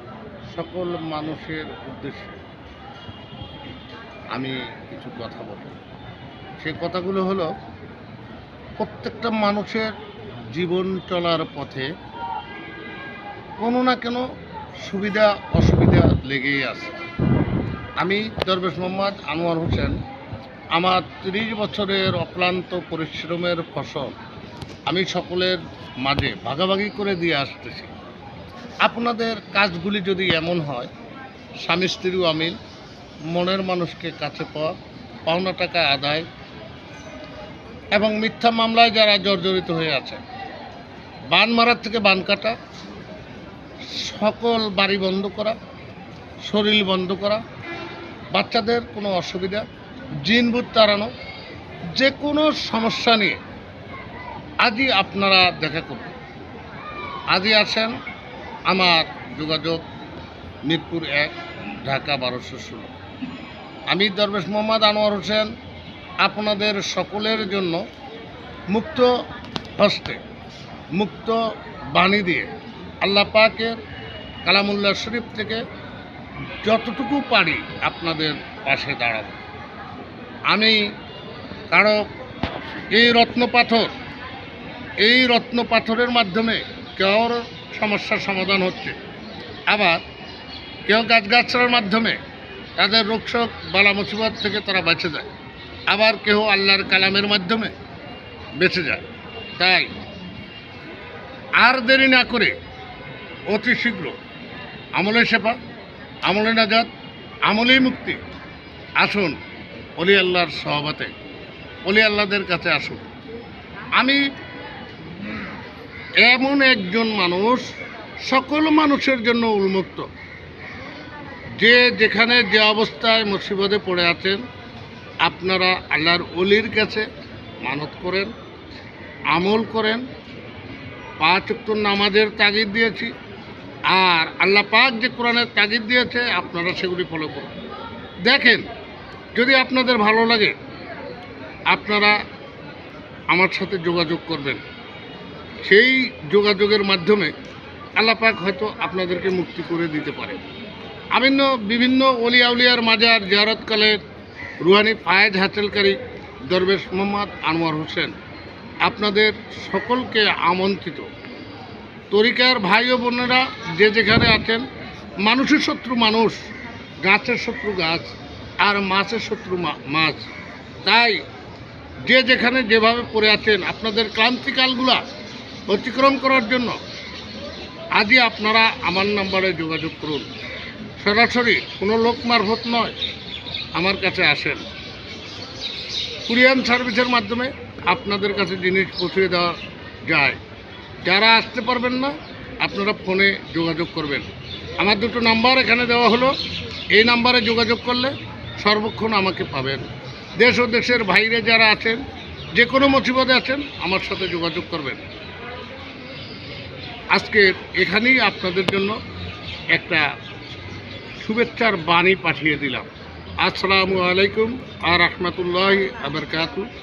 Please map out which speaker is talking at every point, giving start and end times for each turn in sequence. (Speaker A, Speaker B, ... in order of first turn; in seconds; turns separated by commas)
Speaker A: 0.5-2.4, Speaker A: 4.3-5.8, Speaker A: 6.6-7.5, Speaker A: 8.8-9.9, Speaker A: 10.5-11.9, Speaker A: 13.6-14.2, Speaker A: 14.8-17.0, Speaker A: 18.0-20.0, Speaker A: 20.8-24.1, Speaker A: 24.9-27.9, Speaker A: 28.8-30.9, Speaker A: 31.6-32.6, Speaker A: 33.3-36.3, Speaker A: 37.9-40.2, Speaker A: 41.3-42.6, Speaker A: 43.9-45.6, Speaker A: 46.4-47.4, Speaker A: 48.3-49.7, Speaker A: 50.2-51.1, Speaker A: 51.9-53.4, Speaker A: 54.6-56.1, Speaker A: 57.3-58.0, Speaker A: 58.7-59.8, Speaker A: 60.7-61.3, Speaker A: 61.9-62.9, Speaker A: 63.9-65.5, Speaker A: 66.2-67.8, Speaker A: 68.7-69.1, Speaker A: 69.8-70.2, Speaker A: 71.0-71.4, Speaker A: 71.9-72.5, Speaker A: 73.0-73.8, Speaker A: 74.5-75.6, Speaker A: 76.6-79.4, Speaker A: 80.5-80.9, Speaker A: 81.7-82.0, Speaker A: 82.9-83.9, Speaker A: 85.0-89.0, Speaker A: 89.7-90.0, Speaker A: 90.9-92.2, Speaker A: 92.8-95.3, Speaker A: 95.9-97.7, Speaker A: 98.6-99.0, Speaker A: 99.6-99.9, Speaker A: 101.6-102.5, Speaker A: 103.5-104.2, Speaker A: 105.0-105.6, Speaker A: 106.3-106.9, Speaker A: 107.5-108.2, Speaker A: 109.0-109.4, Speaker A: 110.0-111.1, Speaker A: 111.9-113.1, Speaker A: 114.0-114.2, Speaker A: 116.2-117.7, Speaker A: 118.3-120.1, Speaker A: 121.6-124.4, Speaker A: 125.2-127.1, Speaker A: 127.6-128.3, Speaker A: 129.3-130.0, Speaker A: 131.2-133.1, Speaker A: 133.9-137.5, Speaker A: 138.3-138.7, Speaker A: 139.3-140.5, Speaker A: 141.7-142.2, Speaker A: 143.3-144.6, Speaker A: 145.6-147.3, Speaker A: 148.0-150.4, Speaker A: 151.2-154.0, Speaker A: 154.6-158.1, Speaker A: 158.8-161.1, Speaker A: 162.1-164.7, Speaker A: 165.2-166.4, Speaker A: 167.0-168.1, Speaker A: 168.6-170.2, Speaker A: 170.9-171.2, Speaker A: 172.1-175.0, Speaker A: 175.7-176.8, Speaker A: 178.0-180.3, Speaker A: 181.0-183.0, Speaker A: 183.8-184.7, Speaker A: 186.3-189.6, Speaker A: 190.1-190.4, Speaker A: 191.1-194.3, Speaker A: 194.8-196.3, Speaker A: 196.9-199.9, Speaker A: 200.4-202.0, Speaker A: 202.6-205.1, Speaker A: 207.1-209.0, Speaker A: 209.7-210.1, Speaker A: 211.2-212.9, Speaker A: 213.4-216.7